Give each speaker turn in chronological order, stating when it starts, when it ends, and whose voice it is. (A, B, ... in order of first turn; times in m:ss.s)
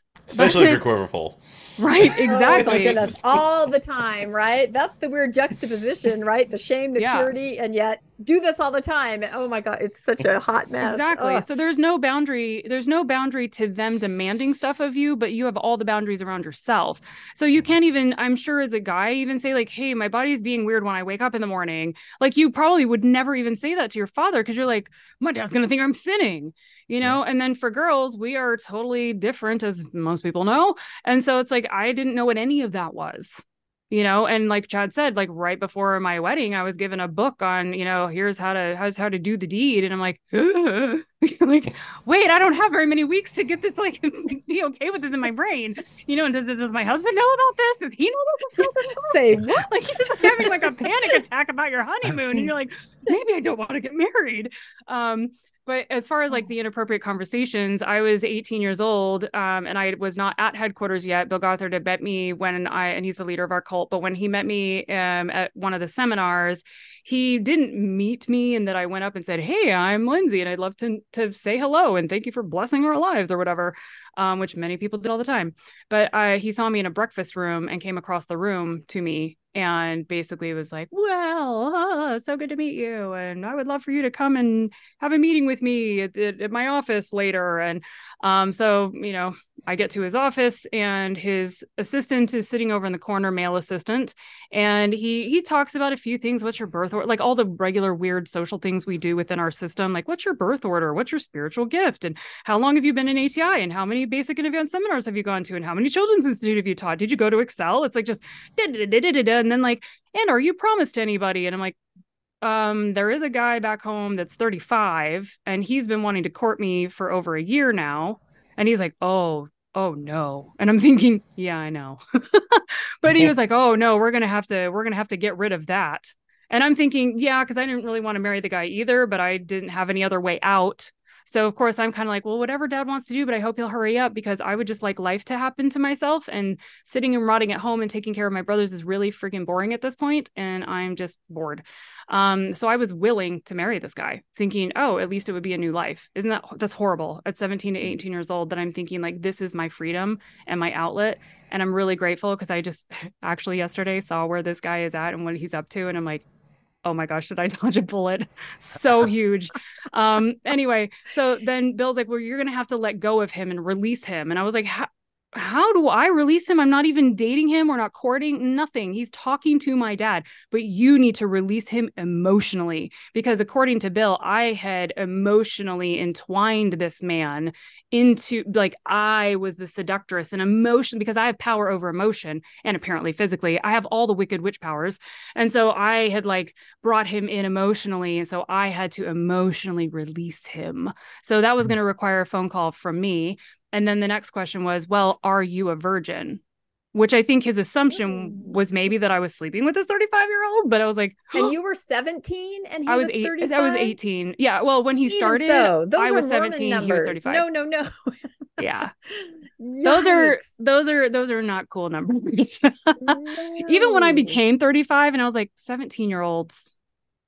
0:00.3-0:03.4 A
0:00.3-0:00.8 B
0:01.8-0:03.1 B
0:02.3-0:11.6 C
0:07.0-0:07.3 B
0:10.8-1:51.8 B
0:49.0-0:51.2 C
1:52.4-2:36.2 B
2:36.8-3:16.4 B
3:16.9-3:21.5 B
3:17.9-3:18.6 C
3:21.4-3:24.0 C
3:22.9-3:27.5 B
3:25.1-3:28.1 C
3:28.6-3:28.9 B
3:29.1-3:30.4 C
3:29.8-3:36.7 B
3:33.0-3:34.4 C